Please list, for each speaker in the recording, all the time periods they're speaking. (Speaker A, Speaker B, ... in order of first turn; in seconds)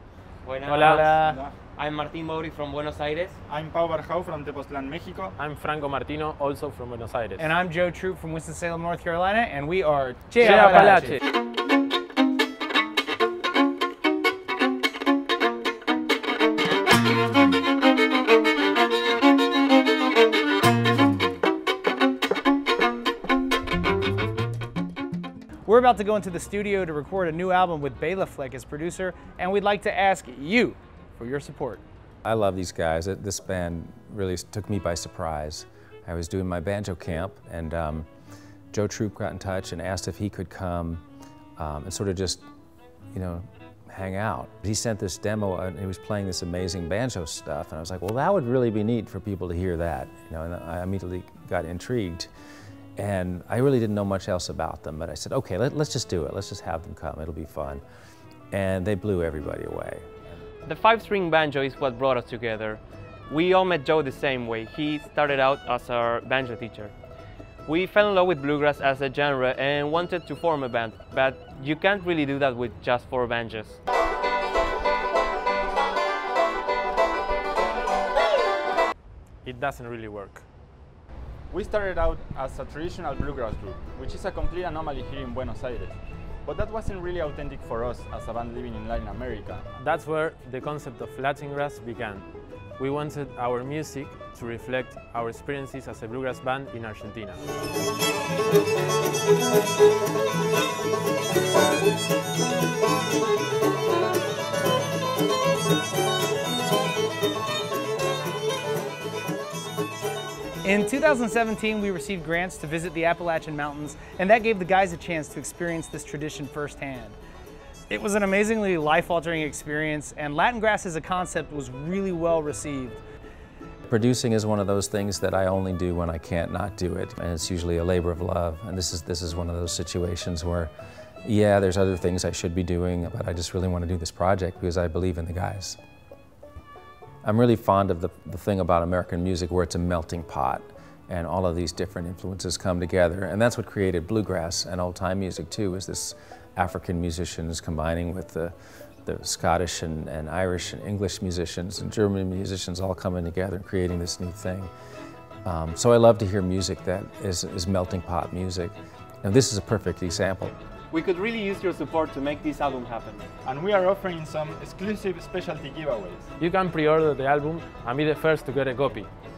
Speaker A: 0.4-3.4, 60.6-66.9, 67.7-73.8, 160.9-163.3
Speaker B: 0.7-1.1, 5.4-7.5, 10.4-11.2, 79.4-80.5, 89.8-92.3, 92.8-97.4, 166.4-169.1
Speaker C: 0.8-1.4, 7.4-11.2, 25.7-31.8, 110.6-117.2, 117.9-123.0
Speaker D: 3.5-5.3, 81.5-89.7, 163.4-166.3
Speaker E: 32.2-38.1, 38.7-41.0, 41.6-42.5, 43.1-52.3, 53.0-57.8, 58.5-60.1, 123.9-130.7, 131.2-135.8, 137.2-154.7, 155.4-160.5